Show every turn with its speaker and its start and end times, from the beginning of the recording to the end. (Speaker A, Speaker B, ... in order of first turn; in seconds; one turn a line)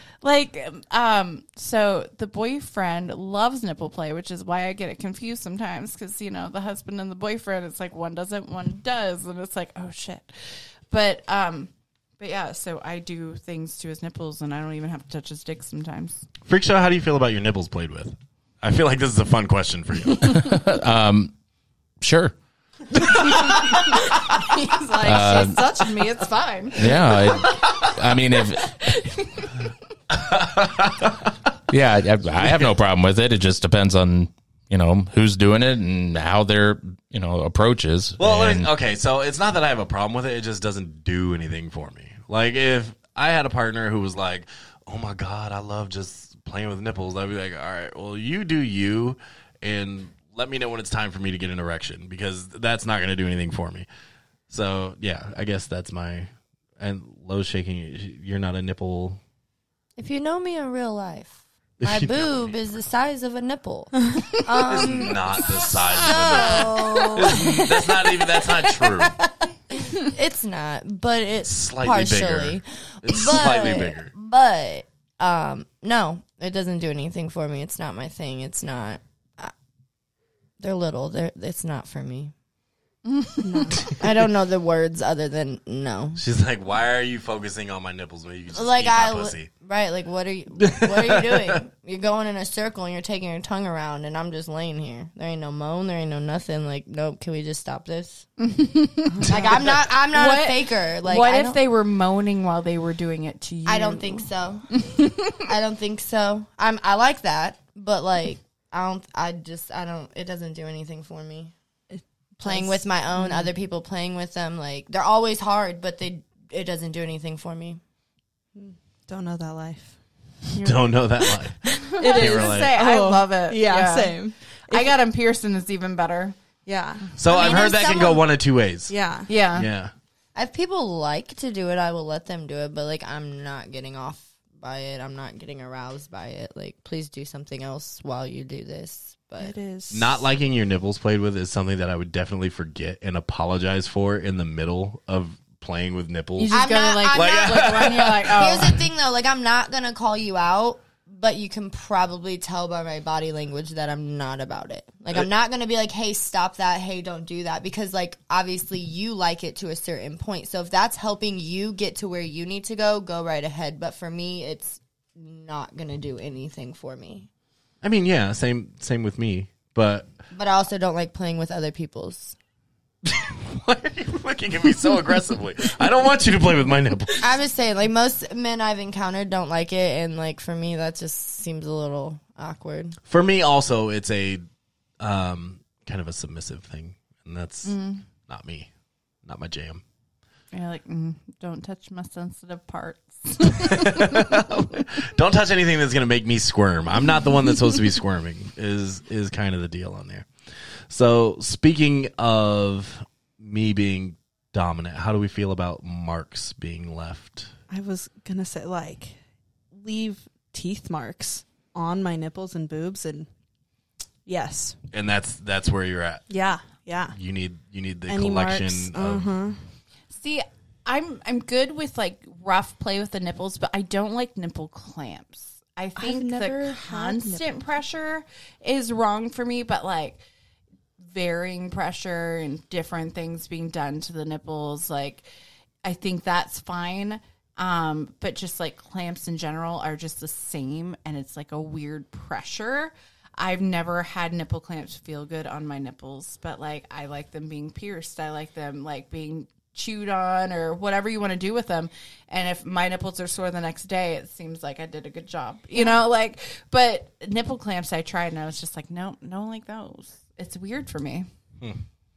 Speaker A: 0.2-16.2
Speaker B: 16.4-20.5
Speaker C: 20.2-21.3
Speaker C: 22.0-22.3
Speaker A: 22.9-29.7
Speaker C: 25.0-25.6
Speaker C: 26.8-28.7
Speaker B: 30.1-31.3
Speaker C: 31.7-38.7
Speaker B: 32.4-32.7
Speaker B: 38.2-53.9
Speaker B: 54.5-59.2
Speaker D: 60.0-79.5
Speaker B: 61.8-62.5
Speaker B: 64.6-69.2
Speaker B: 71.5-74.1
Speaker D: 80.6-82.3
Speaker A: 83.0-83.8
Speaker E: 83.4-83.9
Speaker D: 83.9-86.2
Speaker B: 86.2-89.5
Speaker D: 88.5-98.2
Speaker B: 90.7-91.6
Speaker A: 98.4-105.4
Speaker D: 99.2-101.6
Speaker D: 103.7-104.7
Speaker D: 105.3-111.5
Speaker E: 111.9-113.5
Speaker D: 112.4-117.8
Speaker E: 118.5-120.0
Speaker A: 120.5-121.0
Speaker B: 120.6-122.7
Speaker A: 121.6-126.4
Speaker E: 121.9-124.9
Speaker E: 126.6-127.2
Speaker B: 127.2-128.9
Speaker D: 127.2-128.2
Speaker E: 128.9-129.3
Speaker A: 129.3-129.7
Speaker B: 129.5-129.9
Speaker D: 130.3-139.5
Speaker E: 139.4-140.2
Speaker B: 139.9-148.5
Speaker A: 146.4-148.8
Speaker D: 146.5-167.3
Speaker B: 167.8-170.1
Speaker D: 170.3-172.3
Speaker B: 173.0-177.3
Speaker D: 177.2-183.0
Speaker B: 183.1-184.4
Speaker B: 185.0-188.7
Speaker A: 187.6-188.0
Speaker B: 189.2-189.8
Speaker A: 190.5-194.3
Speaker B: 193.5-200.3
Speaker B: 200.9-207.5
Speaker E: 207.7-209.2
Speaker E: 209.7-213.3
Speaker E: 214.2-214.8
Speaker B: 214.9-216.2
Speaker E: 216.3-217.2
Speaker B: 217.1-219.3
Speaker E: 218.1-219.6
Speaker A: 220.1-230.2
Speaker E: 225.9-227.5
Speaker A: 231.0-235.2
Speaker A: 235.8-261.3